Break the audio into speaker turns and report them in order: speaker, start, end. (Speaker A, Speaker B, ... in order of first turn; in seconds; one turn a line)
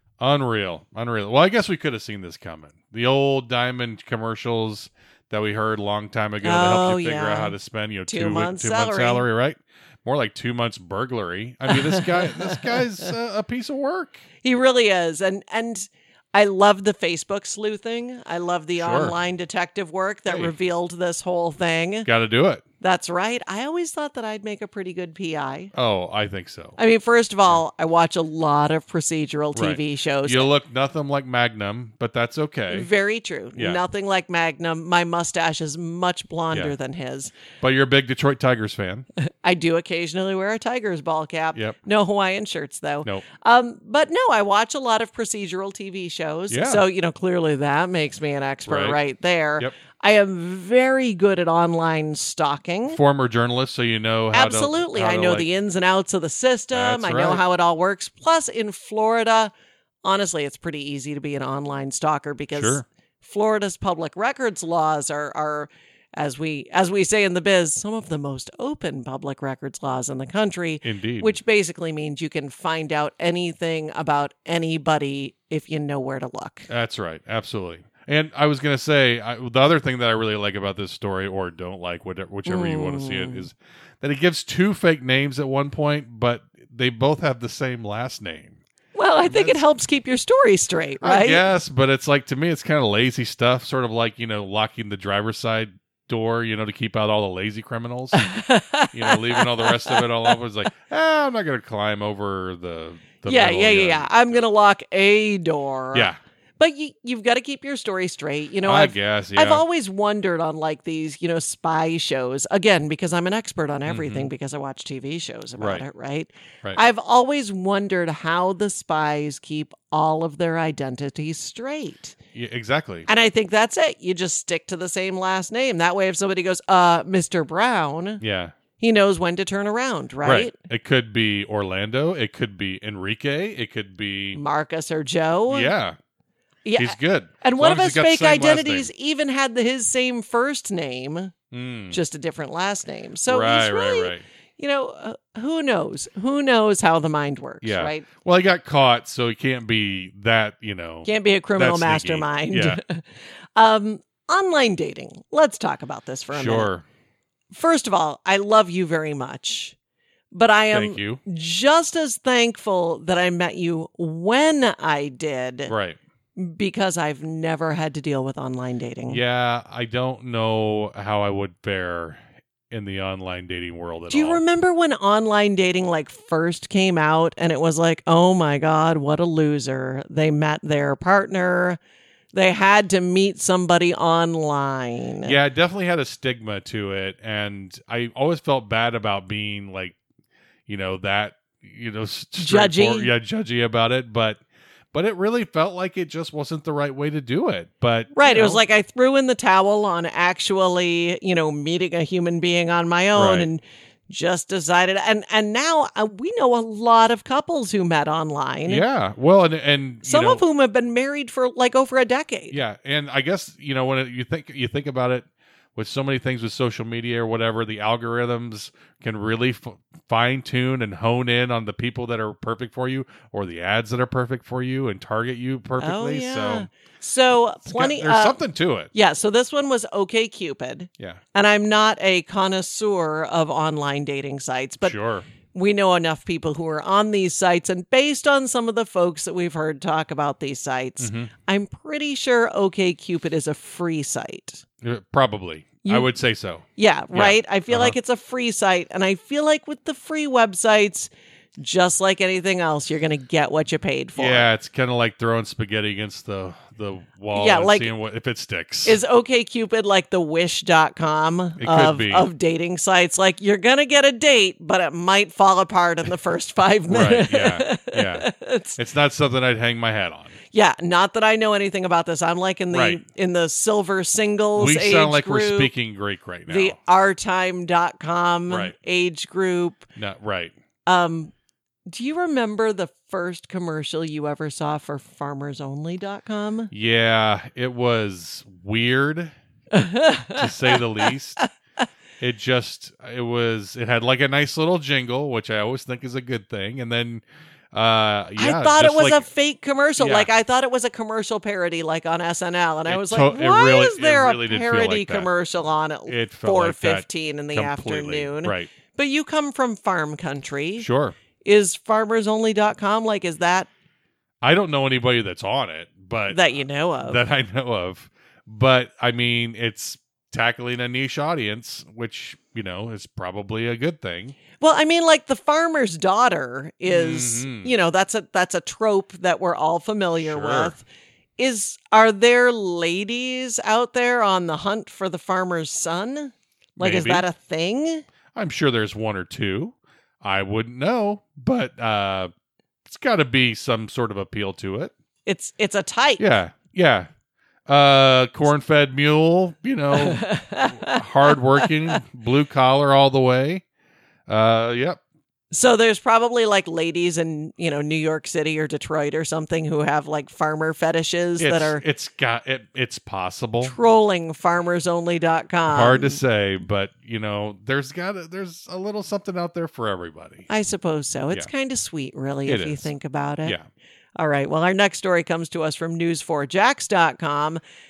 Speaker A: 0.2-14.2
Speaker B: 6.4-7.5
Speaker B: 8.1-9.2
Speaker B: 11.7-12.8
Speaker B: 14.4-22.1
Speaker A: 18.8-19.1
Speaker A: 20.3-20.5
Speaker A: 22.1-22.6
Speaker B: 22.8-25.7
Speaker A: 25.7-26.8
Speaker B: 26.8-30.5
Speaker A: 29.6-32.9
Speaker B: 32.7-37.3
Speaker A: 33.5-33.8
Speaker A: 37.6-39.1
Speaker B: 39.2-53.0
Speaker A: 46.5-46.8
Speaker A: 48.7-49.0
Speaker A: 52.9-55.5
Speaker B: 54.3-59.5
Speaker A: 56.7-57.4
Speaker B: 60.0-76.7
Speaker A: 62.5-62.8
Speaker A: 70.8-71.4
Speaker A: 76.7-88.6
Speaker B: 82.5-83.5
Speaker B: 89.0-91.5
Speaker A: 89.3-89.6
Speaker A: 91.0-98.3
Speaker B: 98.1-100.4
Speaker A: 98.9-104.4
Speaker B: 103.3-122.2
Speaker A: 105.9-106.2
Speaker A: 108.7-109.6
Speaker A: 113.9-114.3
Speaker A: 115.6-115.8
Speaker A: 122.3-123.1
Speaker B: 123.1-128.2
Speaker A: 128.2-128.5
Speaker B: 128.8-130.5
Speaker A: 130.2-134.4
Speaker B: 134.3-135.7
Speaker A: 135.5-136.0
Speaker B: 136.7-141.3
Speaker A: 136.8-138.9
Speaker A: 141.5-142.0
Speaker B: 141.9-148.1
Speaker A: 143.3-144.2
Speaker A: 147.6-152.8
Speaker B: 151.0-156.7
Speaker A: 156.3-156.8
Speaker B: 157.5-159.8
Speaker B: 160.3-165.7
Speaker A: 160.7-161.2
Speaker A: 165.7-166.0
Speaker B: 166.3-169.2
Speaker A: 169.1-174.4
Speaker B: 174.1-181.8
Speaker B: 182.3-185.3
Speaker A: 185.2-190.0
Speaker A: 190.7-194.4
Speaker B: 192.3-193.1
Speaker A: 194.9-198.6
Speaker B: 198.1-208.8
Speaker A: 203.2-203.5
Speaker A: 208.7-210.4
Speaker B: 210.0-212.6
Speaker A: 212.5-226.7
Speaker B: 225.8-228.4
Speaker A: 227.7-228.9
Speaker B: 228.9-235.0
Speaker A: 234.8-235.3
Speaker B: 235.5-244.6
Speaker A: 241.0-241.3
Speaker A: 244.8-248.0
Speaker B: 246.8-254.5
Speaker A: 254.2-259.0
Speaker B: 257.3-257.9
Speaker B: 258.9-268.8
Speaker A: 261.6-262.3
Speaker A: 266.9-270.4
Speaker B: 270.5-275.7
Speaker A: 272.7-273.0
Speaker A: 274.6-276.8
Speaker B: 276.5-279.9
Speaker A: 278.5-278.7
Speaker A: 280.0-280.5
Speaker B: 280.9-281.3
Speaker B: 281.9-286.7
Speaker A: 286.7-289.4
Speaker B: 289.7-291.4
Speaker A: 290.3-291.4
Speaker A: 292.2-299.2
Speaker B: 298.4-310.9
Speaker A: 300.0-300.3
Speaker A: 302.9-305.3
Speaker A: 306.1-308.7
Speaker A: 310.8-311.1
Speaker B: 311.4-313.7
Speaker A: 314.4-324.4
Speaker B: 316.3-317.2
Speaker B: 324.6-330.8
Speaker A: 326.9-327.7
Speaker A: 330.2-330.8
Speaker B: 331.4-338.0
Speaker A: 336.8-337.2
Speaker A: 338.3-342.3
Speaker A: 342.9-344.9
Speaker B: 345.2-346.2
Speaker A: 346.2-347.1
Speaker A: 347.7-353.6
Speaker B: 349.9-352.0
Speaker A: 354.3-355.0
Speaker B: 355.5-361.8
Speaker A: 361.4-363.7
Speaker B: 363.6-366.2
Speaker A: 365.7-370.5
Speaker B: 370.5-373.6
Speaker A: 372.4-372.9
Speaker B: 374.2-377.6